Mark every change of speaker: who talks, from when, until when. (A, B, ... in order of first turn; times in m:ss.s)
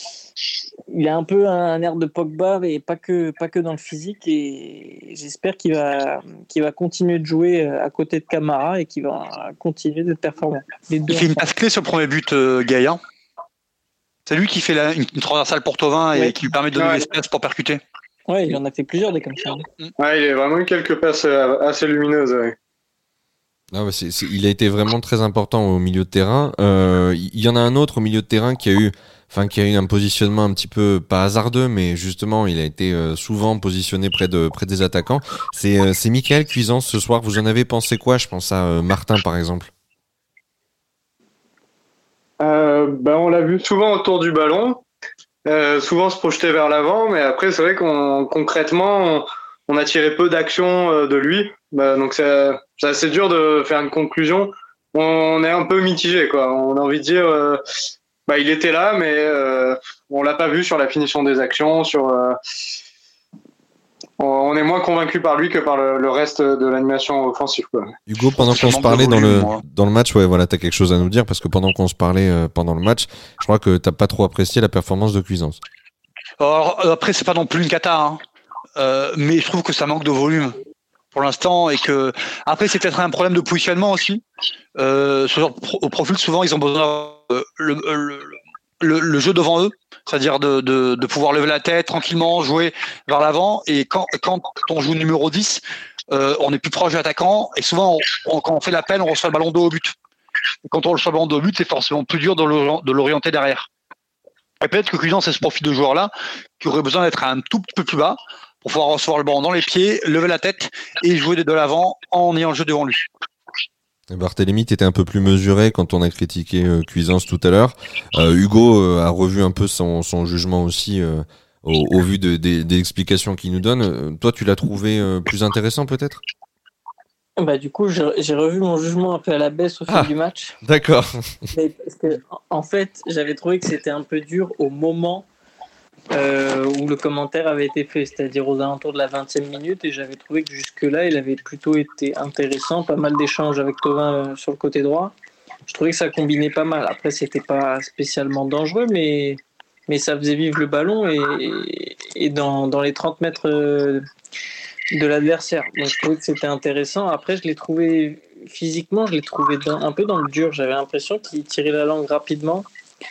0:00.9-0:11.4 A
0:11.1-0:13.0 B
0:14.3-0:17.8 B
0:16.8-0:17.0 C
0:18.3-0:19.6 A
0:20.0-0:22.5 C
0:23.7-0:39.7 D
0:42.4-0:44.8 C
0:45.4-0:57.6 C
0:58.3-1:02.4 C
1:04.2-1:07.9 C
1:08.1-1:15.6 D
1:08.4-1:09.6 B
1:16.4-1:18.2 B
1:18.8-1:20.5 B
1:21.1-1:24.2 B
1:24.8-1:39.9 B
1:40.7-1:43.7 B
1:44.6-1:53.1 B
1:54.1-2:06.2 D
2:07.4-2:10.6 A
2:10.6-2:11.4 D
2:11.5-2:15.3 A
2:16.1-2:25.1 A
2:25.7-2:34.0 A
2:34.9-2:42.7 A